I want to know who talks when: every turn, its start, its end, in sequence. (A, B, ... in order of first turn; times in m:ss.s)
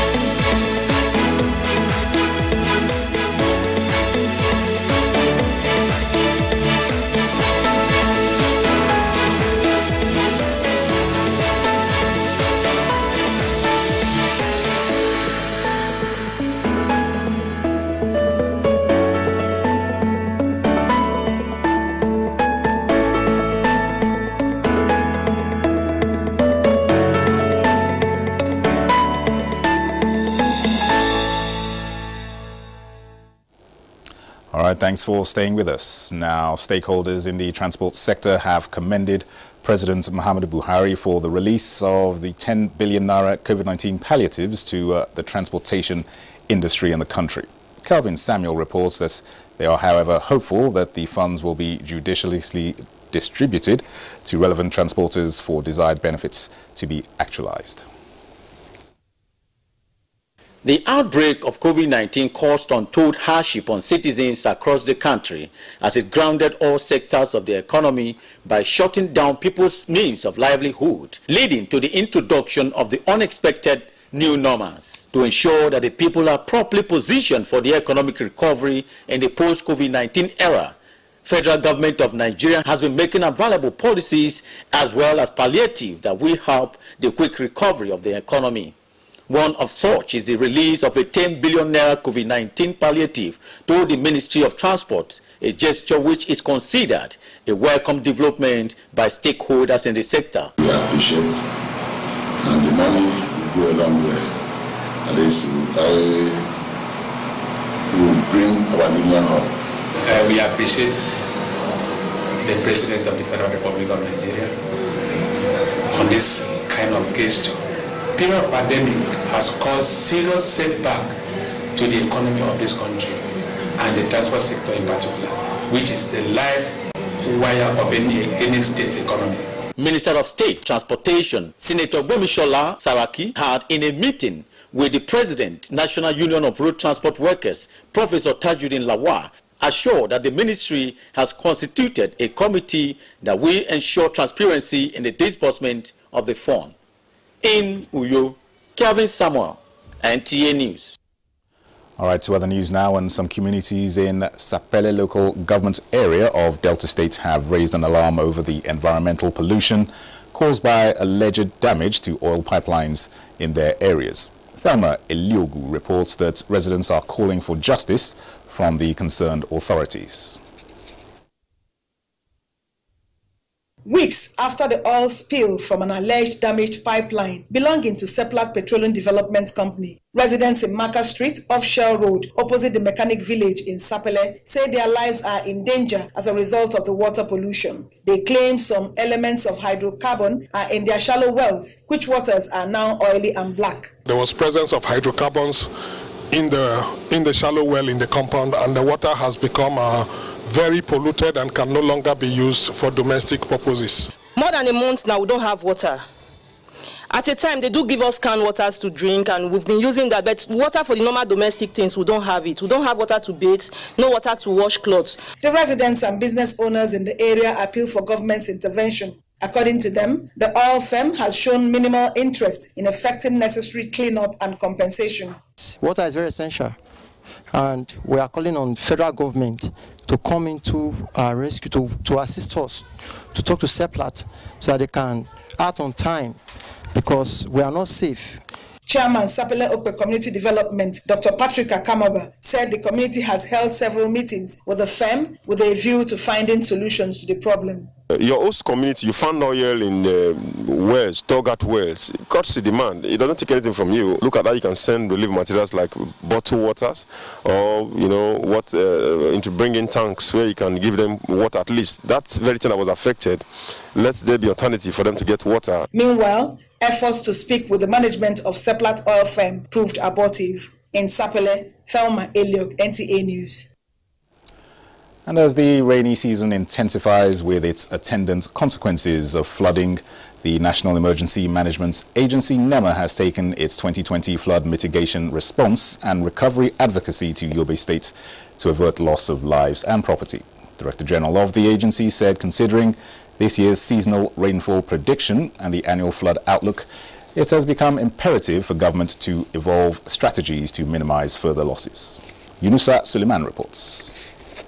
0:34.5-0:57.8 A
1:00.6-1:20.7 B
1:21.2-1:28.7 B
1:29.3-1:40.5 B
1:40.6-1:41.4 C
1:42.4-1:44.2 C
1:45.1-1:46.3 C
1:47.9-1:49.5 C
1:50.0-1:51.4 D
1:52.4-1:54.6 D
1:55.9-2:01.2 D
2:01.8-2:03.2 D
2:03.8-2:09.4 D
2:09.8-2:26.7 B
2:27.4-2:30.9 B
2:32.0-2:50.4 A
2:53.8-3:14.0 E
3:14.1-3:15.7 F
3:16.3-3:24.1 F
3:24.4-3:26.1 G
3:27.1-3:35.2 G
3:35.4-3:45.4 E
3:45.6-3:46.8 H
3:47.5-3:56.4 H
3:56.9-3:58.4 H
3:58.9-4:07.9 E
4:08.1-4:25.9 I
4:25.9-4:33.7 E
4:35.2-5:04.1 A